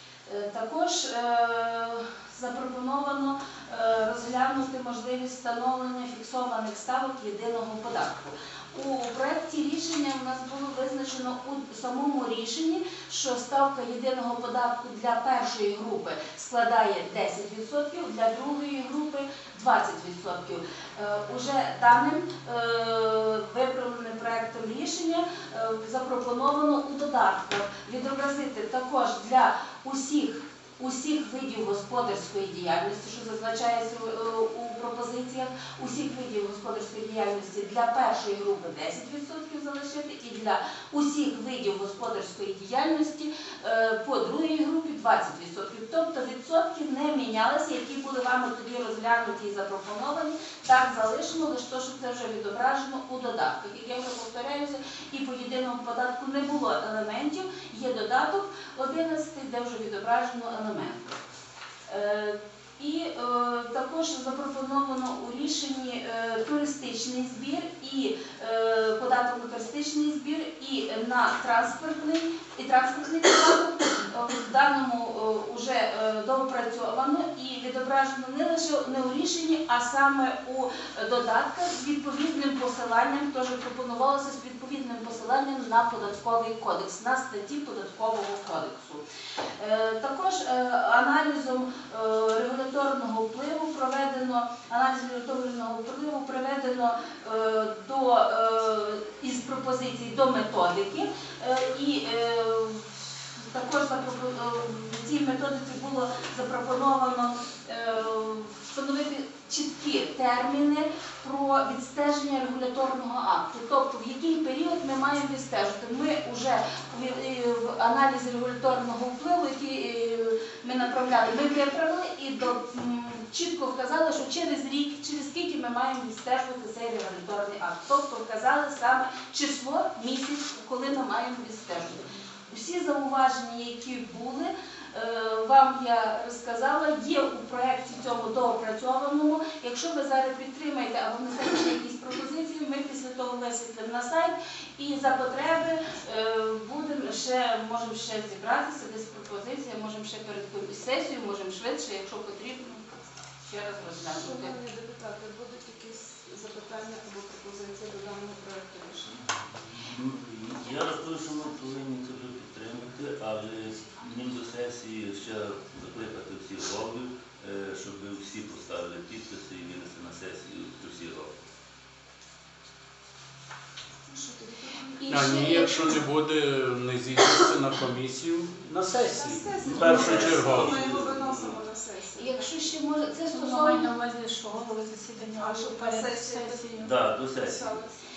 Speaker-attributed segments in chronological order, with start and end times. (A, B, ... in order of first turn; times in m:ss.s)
0:00.2-1:01.2 A
1:01.9-1:29.0 A
1:29.6-2:32.9 A
2:33.4-2:34.6 A
2:34.1-2:39.2 B
2:39.7-2:51.4 C
2:54.1-2:55.1 B
2:55.0-2:56.0 A
2:55.1-3:00.8 D
2:59.0-3:02.6 B
2:59.6-3:01.6 C
3:02.2-3:03.9 A
3:03.3-3:07.0 E
3:05.4-3:06.7 B
3:06.8-3:07.7 C
3:07.3-3:08.1 B